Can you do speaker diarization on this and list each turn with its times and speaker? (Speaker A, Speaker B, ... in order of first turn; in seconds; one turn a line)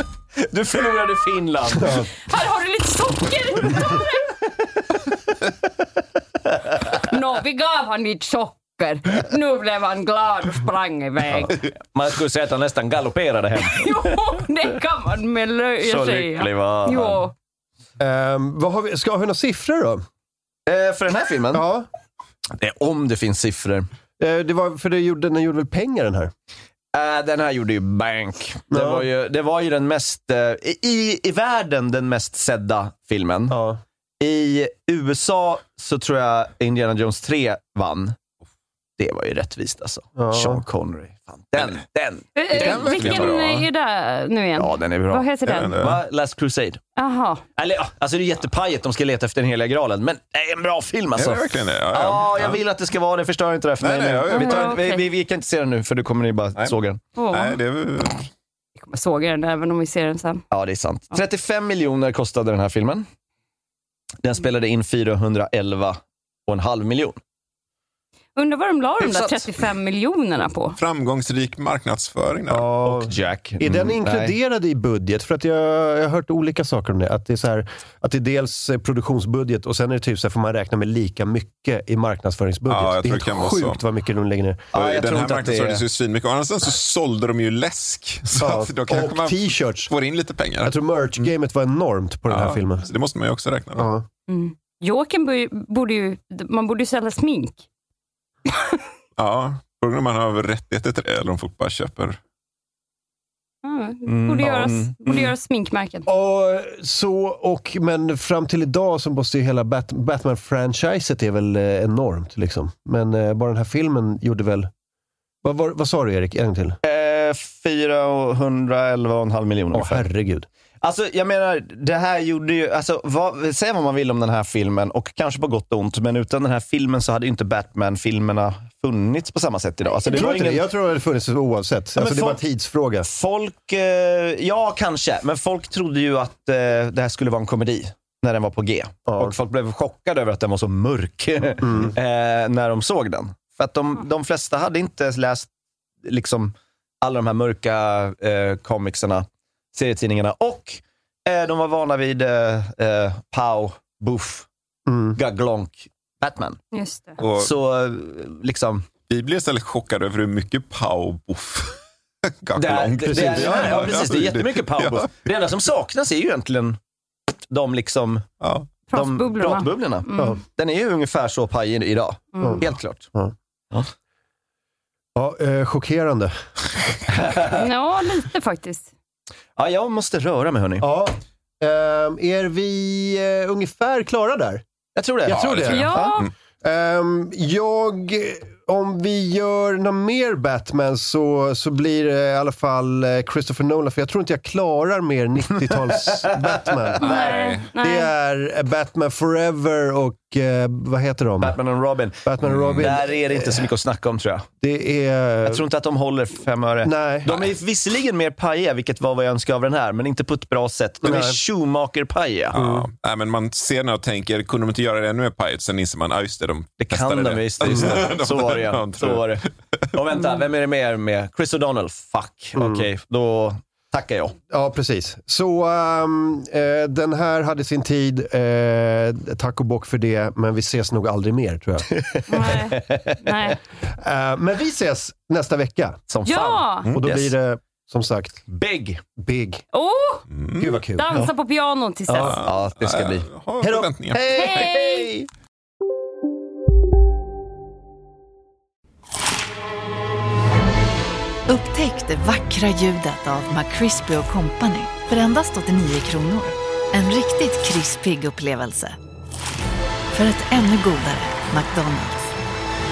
Speaker A: 0.4-2.0
Speaker B: 2.2-4.3
Speaker B: 7.0-11.5
Speaker A: 11.3-14.2
Speaker B: 13.6-17.3
Speaker A: 15.8-17.2
Speaker C: 18.0-20.0
Speaker A: 20.7-21.6
Speaker C: 21.5-21.9
Speaker A: 22.6-23.9
Speaker C: 24.2-26.3
Speaker A: 26.9-33.6
Speaker C: 28.7-29.1
Speaker C: 33.5-33.8
Speaker A: 34.2-38.1
Speaker A: 39.0-43.4
Speaker C: 40.1-40.6
Speaker B: 42.4-45.7
Speaker D: 42.6-43.7
Speaker A: 44.6-46.8
Speaker D: 45.5-46.0
Speaker B: 47.0-47.4
Speaker A: 47.5-57.0
Speaker D: 51.1-52.6
Speaker D: 53.8-54.8
Speaker B: 54.3-55.0
Speaker B: 57.1-57.6
Speaker D: 57.3-58.3
Speaker B: 58.8-60.4
Speaker A: 60.5-63.0
Speaker A: 64.2-67.2
Speaker B: 68.3-70.8
Speaker A: 69.0-69.4
Speaker D: 70.8-72.7
Speaker C: 72.5-84.7
Speaker A: 72.8-74.3
Speaker D: 82.7-83.8
Speaker A: 84.7-85.8
Speaker D: 84.7-91.3
Speaker C: 88.3-89.9
Speaker C: 90.6-92.9
Speaker D: 92.3-93.9
Speaker C: 93.7-94.0
Speaker B: 94.3-97.6
Speaker D: 99.2-102.2
Speaker B: 103.6-106.1
Speaker A: 104.0-105.3
Speaker C: 106.1-114.7
Speaker C: 115.4-116.8
Speaker A: 116.8-120.1
Speaker C: 119.7-120.5
Speaker A: 120.8-130.6
Speaker C: 130.1-133.1
Speaker A: 131.9-132.4
Speaker A: 133.0-145.5
Speaker C: 139.1-139.3
Speaker C: 141.6-141.9
Speaker A: 146.0-154.5
Speaker C: 154.9-155.2
Speaker A: 155.2-156.6
Speaker B: 156.7-157.2
Speaker D: 157.2-157.5
Speaker A: 157.2-158.8
Speaker D: 159.1-161.8
Speaker D: 162.4-165.1
Speaker A: 162.6-166.8
Speaker C: 163.0-163.9
Speaker A: 167.5-168.2
Speaker D: 168.4-168.7
Speaker B: 168.9-170.4
Speaker A: 168.9-173.1
Speaker C: 170.2-170.4
Speaker B: 172.3-172.6
Speaker C: 175.1-176.3
Speaker A: 177.1-177.6
Speaker B: 177.5-178.9
Speaker A: 179.6-180.8
Speaker C: 180.8-184.6
Speaker A: 184.9-185.8
Speaker C: 185.2-201.6
Speaker D: 185.3-186.3
Speaker B: 185.7-186.3
Speaker D: 197.0-197.7
Speaker B: 197.0-198.1
Speaker A: 201.4-204.5
Speaker C: 202.2-203.7
Speaker D: 202.4-202.8
Speaker C: 204.6-205.6
Speaker A: 205.4-212.6
Speaker C: 206.8-207.5
Speaker C: 211.0-211.4
Speaker C: 212.5-212.9
Speaker D: 212.5-219.5
Speaker A: 216.8-224.3
Speaker C: 217.6-218.0
Speaker C: 222.6-222.8
Speaker C: 224.5-231.9
Speaker A: 231.9-233.3
Speaker B: 232.3-233.6
Speaker C: 233.8-236.1
Speaker A: 236.1-237.3
Speaker B: 236.2-236.9
Speaker C: 236.9-238.4
Speaker A: 238.5-239.0
Speaker C: 239.2-239.6
Speaker B: 239.7-240.2
Speaker D: 240.3-240.8
Speaker C: 240.6-241.3
Speaker B: 240.9-242.4
Speaker D: 242.2-244.8
Speaker A: 242.4-243.3
Speaker C: 243.6-245.0
Speaker B: 244.3-245.1
Speaker E: 251.5-259.0
Speaker E: 260.1-262.3